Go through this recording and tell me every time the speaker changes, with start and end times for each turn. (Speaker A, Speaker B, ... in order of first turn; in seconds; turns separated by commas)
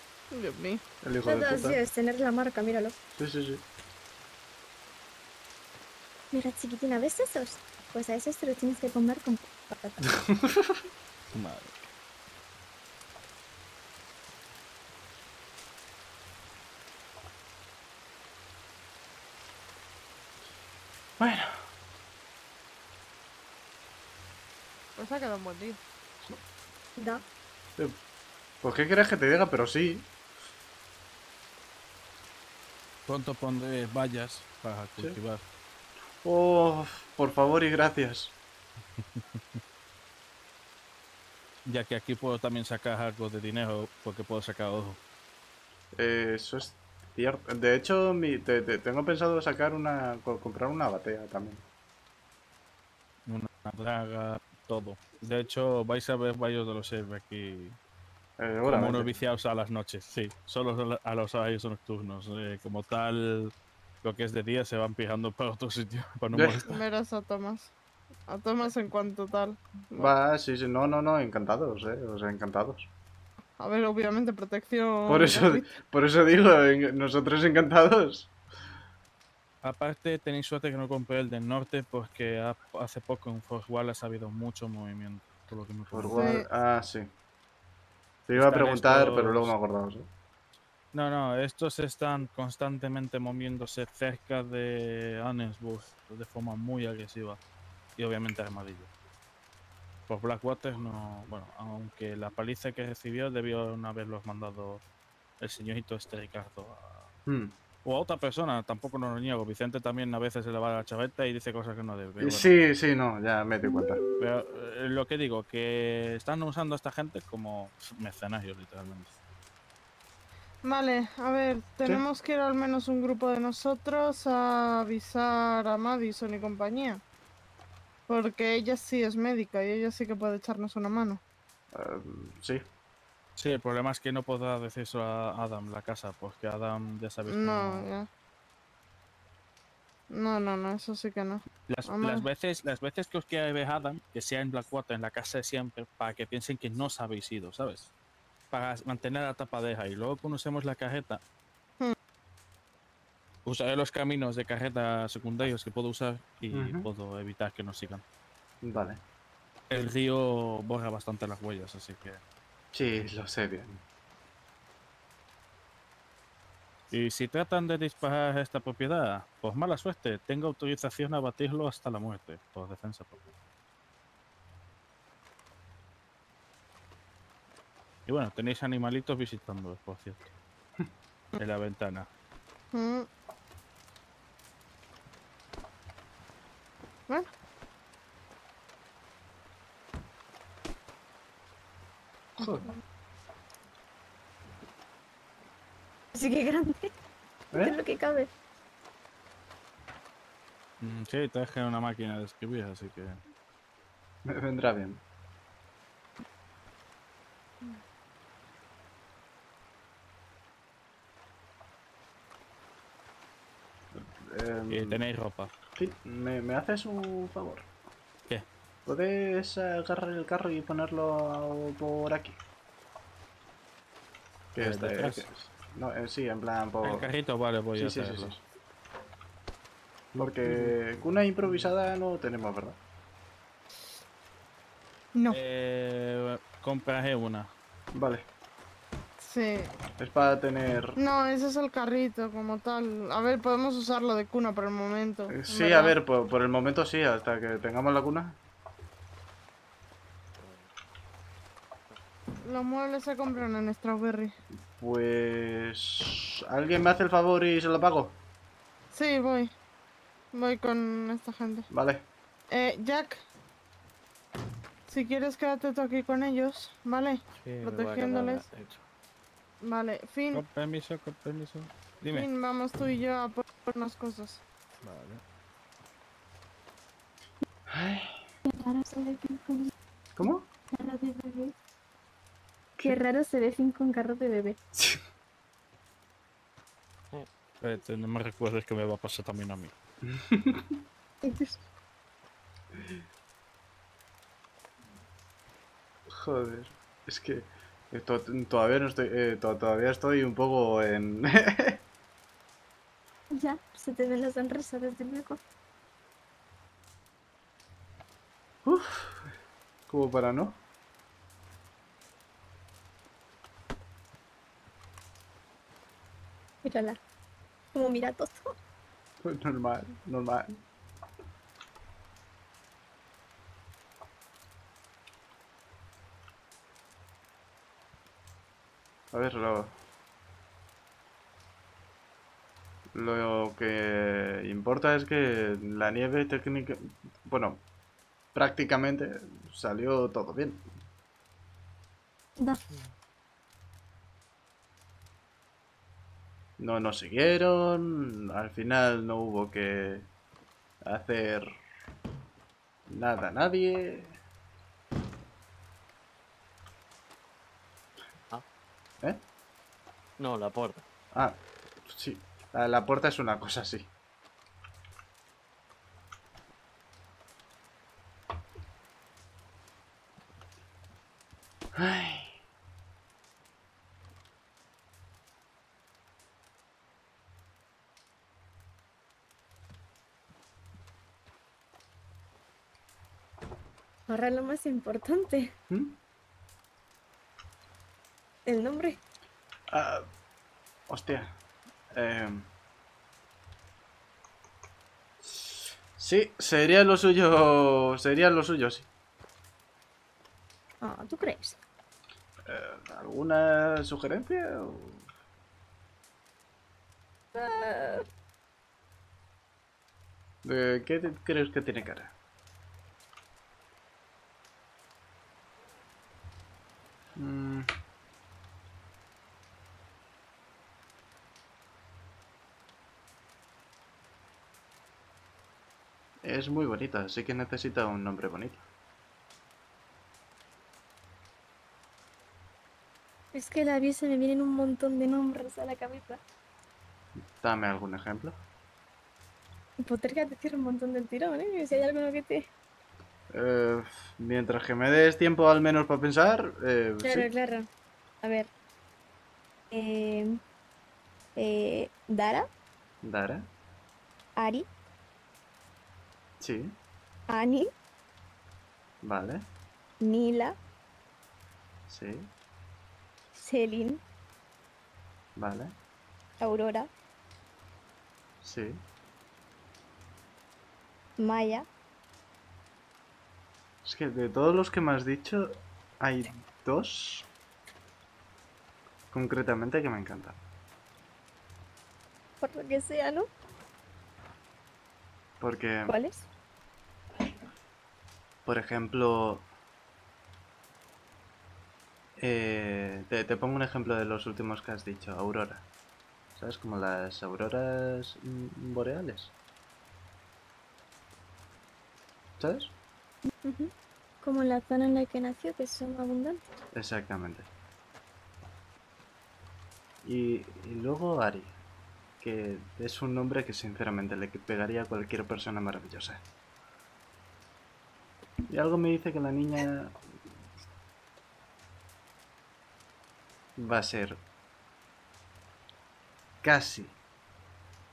Speaker A: 0.3-0.8, Speaker B: 1.0-1.8, Speaker C: 1.2-3.0, Speaker B: 3.1-3.6, Speaker C: 6.3-10.2, Speaker D: 11.3-11.9, Speaker B: 21.2-21.6, Speaker A: 25.0-25.8, Speaker C: 27.0-27.2, Speaker B: 28.6-30.1, Speaker D: 33.1-35.4, Speaker B: 36.2-38.4, Speaker D: 39.0-39.6, Speaker D: 41.7-45.0, Speaker B: 46.0-51.6, Speaker D: 53.3-57.8, Speaker B: 58.4-59.1, Speaker D: 58.7-66.8, Speaker A: 66.7-67.7, Speaker A: 68.3-70.1, Speaker B: 70.0-72.9, Speaker A: 73.6-75.8, Speaker B: 75.1-78.3, Speaker D: 79.6-86.3, Speaker B: 85.9-87.1, Speaker A: 86.1-86.5, Speaker B: 88.3-90.1, Speaker D: 88.3-89.5, Speaker D: 90.9-97.4, Speaker D: 98.0-98.9, Speaker D: 100.1-104.8, Speaker D: 105.4-107.1, Speaker B: 107.3-107.5, Speaker D: 107.8-112.5, Speaker B: 112.2-114.0, Speaker D: 114.2-119.2, Speaker A: 120.6-127.0, Speaker A: 128.1-131.2, Speaker B: 131.7-132.6, Speaker D: 133.4-137.9, Speaker A: 137.3-138.1, Speaker A: 140.1-142.3, Speaker D: 141.7-147.9, Speaker D: 148.5-151.2, Speaker D: 153.4-158.0, Speaker B: 156.5-156.9, Speaker B: 158.6-159.0, Speaker D: 159.7-162.2, Speaker B: 162.7-163.8, Speaker D: 166.9-173.2, Speaker D: 178.1-180.3, Speaker D: 181.4-182.1, Speaker A: 182.7-183.1, Speaker B: 192.4-192.7, Speaker C: 196.1-196.9, Speaker B: 197.5-197.8, Speaker C: 197.5-198.3, Speaker D: 200.8-203.2, Speaker B: 204.3-205.0, Speaker B: 213.9-215.1, Speaker D: 214.7-215.5, Speaker B: 215.8-217.7, Speaker B: 218.9-222.4, Speaker B: 224.5-227.1, Speaker D: 224.6-225.3, Speaker D: 226.8-228.3, Speaker B: 227.8-228.4, Speaker B: 230.1-232.8, Speaker A: 235.2-235.4, Speaker D: 235.3-237.5, Speaker B: 237.9-238.3, Speaker A: 239.2-239.7, Speaker B: 240.0-241.0, Speaker A: 241.0-246.0, Speaker B: 245.3-248.4, Speaker E: 250.4-250.7, Speaker A: 252.4-254.3, Speaker B: 254.8-258.2, Speaker A: 258.9-259.5, Speaker A: 260.3-261.7, Speaker B: 261.7-262.1, Speaker A: 262.5-263.2, Speaker A: 264.9-268.4, Speaker E: 267.3-268.9, Speaker A: 269.6-270.4, Speaker D: 270.3-272.3, Speaker A: 272.1-274.4, Speaker D: 274.8-275.2, Speaker B: 277.7-278.2, Speaker C: 278.5-279.7, Speaker B: 280.1-280.5, Speaker C: 280.7-281.6, Speaker C: 282.8-284.6, Speaker D: 287.6-289.7, Speaker B: 290.1-290.7, Speaker C: 291.2-291.6, Speaker B: 296.2-301.8, Speaker C: 303.3-305.4, Speaker B: 308.6-309.3, Speaker B: 309.9-310.6, Speaker C: 316.6-317.0, Speaker C: 317.7-318.5, Speaker B: 319.2-320.5, Speaker B: 329.1-329.8, Speaker B: 332.9-337.6, Speaker B: 338.3-340.7, Speaker B: 346.6-350.1, Speaker B: 350.9-351.5, Speaker B: 352.9-354.2, Speaker E: 360.2-360.9, Speaker B: 361.1-363.9, Speaker B: 371.8-372.4, Speaker C: 384.1-385.5, Speaker B: 385.7-386.0, Speaker C: 388.5-389.0, Speaker B: 389.7-390.1, Speaker B: 390.9-391.3, Speaker B: 391.9-392.5, Speaker B: 395.3-398.9, Speaker C: 400.8-401.6, Speaker B: 402.5-405.1, Speaker C: 407.4-408.0, Speaker B: 410.4-412.1, Speaker B: 417.2-417.7, Speaker B: 426.2-428.6, Speaker C: 433.3-436.2, Speaker B: 437.4-438.4, Speaker C: 439.8-442.5, Speaker B: 443.3-447.3, Speaker C: 447.0-447.7, Speaker C: 448.2-448.5, Speaker C: 449.7-450.3, Speaker C: 451.4-452.5, Speaker B: 453.0-453.5, Speaker C: 454.4-454.7, Speaker B: 456.4-456.8, Speaker C: 457.3-457.7, Speaker B: 459.0-459.4, Speaker C: 460.0-460.6, Speaker B: 461.9-462.3, Speaker C: 463.4-464.0, Speaker B: 465.4-465.7, Speaker C: 466.4-466.9, Speaker B: 468.4-468.8, Speaker C: 471.2-471.7, Speaker B: 473.8-475.5, Speaker B: 476.0-477.3, Speaker B: 479.1-480.4, Speaker C: 482.4-483.3, Speaker B: 485.4-485.9, Speaker C: 485.9-486.3, Speaker B: 488.4-489.5, Speaker B: 492.2-495.7, Speaker B: 496.4-499.3, Speaker B: 502.4-502.7, Speaker C: 503.3-506.4, Speaker B: 506.7-507.5, Speaker B: 510.0-511.6, Speaker B: 512.2-516.2, Speaker B: 518.5-519.9, Speaker B: 523.6-524.2, Speaker B: 526.4-527.0